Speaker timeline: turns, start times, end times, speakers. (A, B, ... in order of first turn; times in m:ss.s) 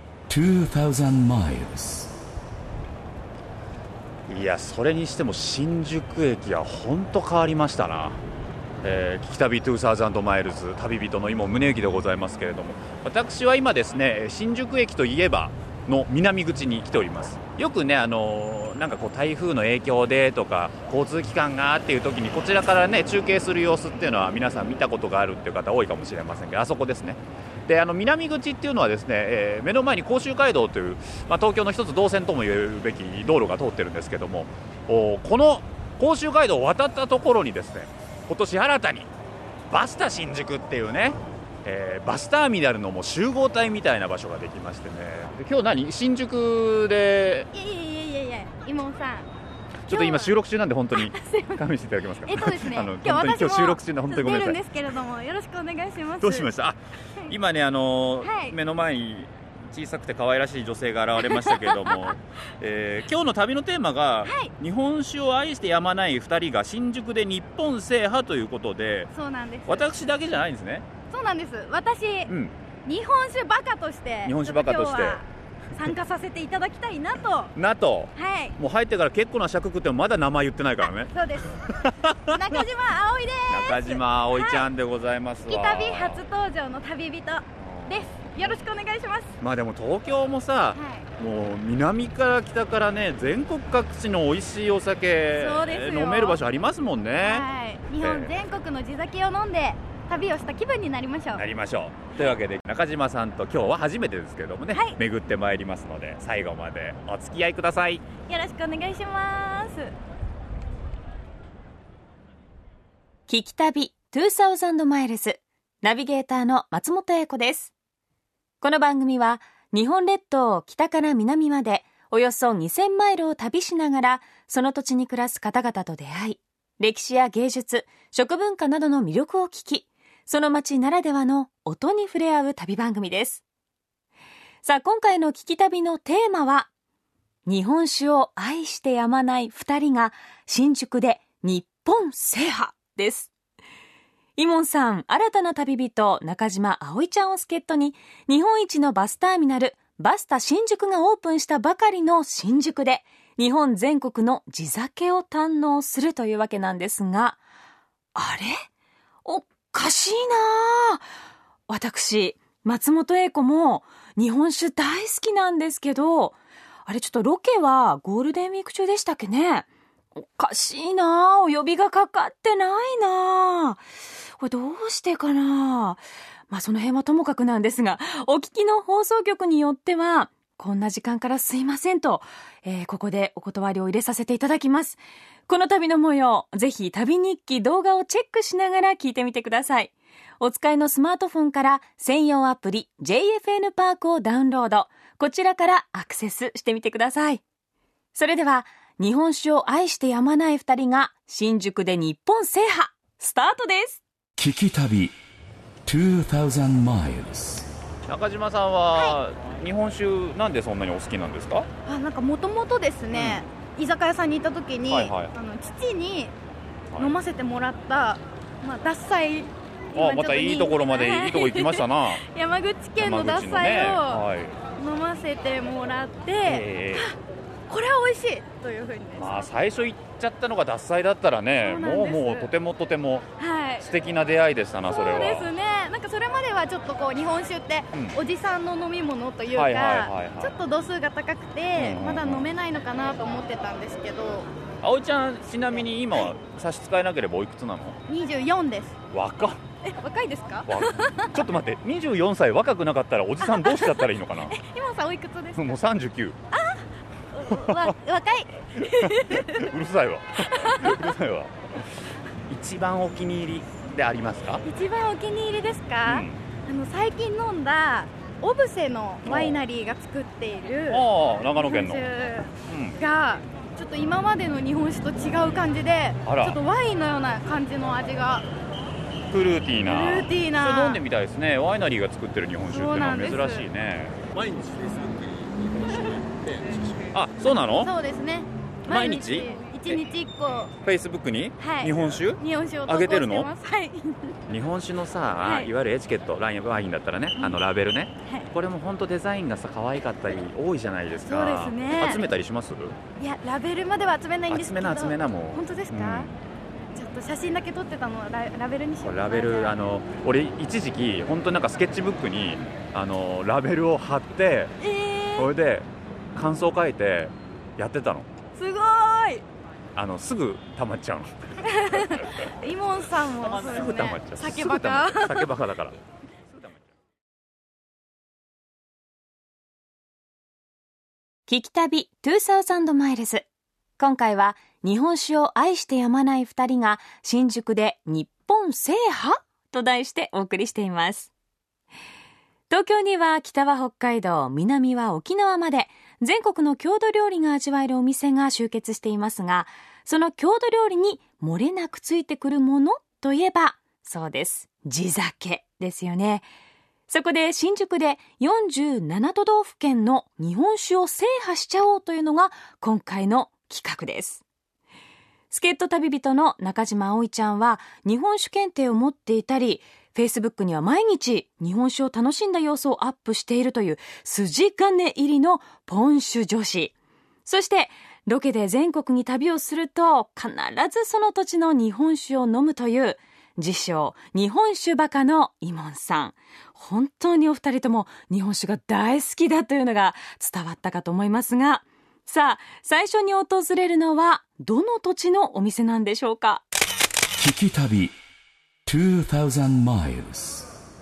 0:00.3-0:02.2 A
0:04.3-0:08.2 B
0:08.8-0:39.1 B
0:39.7-0:47.5 B
0:47.5-0:49.3 C
0:49.9-0:54.6 B
0:49.9-0:50.4 C
0:50.9-0:51.6 C
0:52.3-0:56.5 C
0:56.2-1:09.1 B
0:58.2-0:58.6 C
1:01.2-1:02.2 C
1:04.2-1:04.5 C
1:09.1-1:09.9 C
1:09.7-1:10.9 B
1:11.1-1:12.3 C
1:12.3-1:12.6 B
1:12.9-1:17.5 C
1:14.2-1:15.2 B
1:17.6-1:22.6 B
1:18.2-1:18.6 C
1:21.1-1:21.7 C
1:22.3-1:24.7 C
1:23.5-1:26.2 B
1:25.5-1:29.3 C
1:27.6-1:28.6 B
1:29.4-1:37.5 B
1:30.8-1:31.1 C
1:35.4-1:36.4 C
1:37.2-1:41.4 C
1:38.0-1:38.4 B
1:41.3-1:48.0 B
1:44.7-1:45.0 C
1:48.3-1:49.9 C
1:53.3-1:57.7 D
1:58.6-2:13.4 D
2:14.6-2:16.7 D
2:17.5-2:23.3 D
2:24.4-2:37.4 D
2:38.2-2:38.6 D
2:39.2-2:41.0 D
2:41.7-2:53.8 D
2:54.4-3:17.4 D
3:18.2-3:24.0 D
3:24.4-3:25.2 A
3:25.9-3:27.7 A
3:28.1-3:31.7 B
3:31.9-3:36.4 C
3:33.1-3:33.4 B
3:34.9-3:35.3 B
3:37.0-3:44.2 C
3:39.9-3:42.2 B
3:43.0-3:44.6 B
3:44.8-3:47.2 C
3:46.4-3:47.1 B
3:47.7-3:49.5 C
3:49.2-3:53.3 B
3:51.6-3:52.5 C
3:53.4-3:53.9 C
3:53.8-3:55.5 B
3:54.9-4:04.5 C
3:59.5-4:00.6 B
4:01.8-4:02.5 B
4:04.8-4:08.0 B
4:08.1-4:09.0 C
4:09.1-4:09.6 B
4:09.8-4:11.4 C
4:10.7-4:14.6 B
4:13.4-4:15.8 C
4:15.6-4:16.4 B
4:16.5-4:19.7 C
4:17.5-4:18.0 B
4:18.8-4:21.9 B
4:20.4-4:21.1 C
4:22.5-4:24.6 B
4:24.6-4:31.0 C
4:26.1-4:26.4 B
4:29.2-4:29.6 B
4:30.9-4:32.1 B
4:31.6-4:38.5 C
4:32.6-4:33.0 B
4:36.3-4:36.6 B
4:39.3-4:44.2 B
4:39.8-4:41.0 C
4:42.7-4:43.7 C
4:44.3-4:46.9 E
4:47.1-4:47.9 B
4:47.8-4:50.7 C
4:48.9-4:50.0 B
4:50.8-4:53.5 B
4:51.6-4:54.4 C
4:54.5-5:03.0 B
4:55.4-4:55.7 C
4:57.4-4:57.6 C
5:01.3-5:02.3 C
5:03.2-5:06.3 C
5:04.5-5:06.4 B
5:07.0-5:09.8 C
5:09.0-5:14.8 B
5:14.8-5:15.5 C
5:15.4-5:18.3 B
5:18.6-5:19.4 C
5:20.0-5:22.3 B
5:21.6-5:25.5 C
5:23.4-5:26.0 B
5:31.5-5:33.5 D
5:34.0-5:41.3 D
5:42.7-5:56.5 D
5:57.1-6:04.4 D
6:05.5-6:16.9 D
6:17.5-6:36.6 D
6:37.4-6:38.2 A
6:38.9-6:40.7 A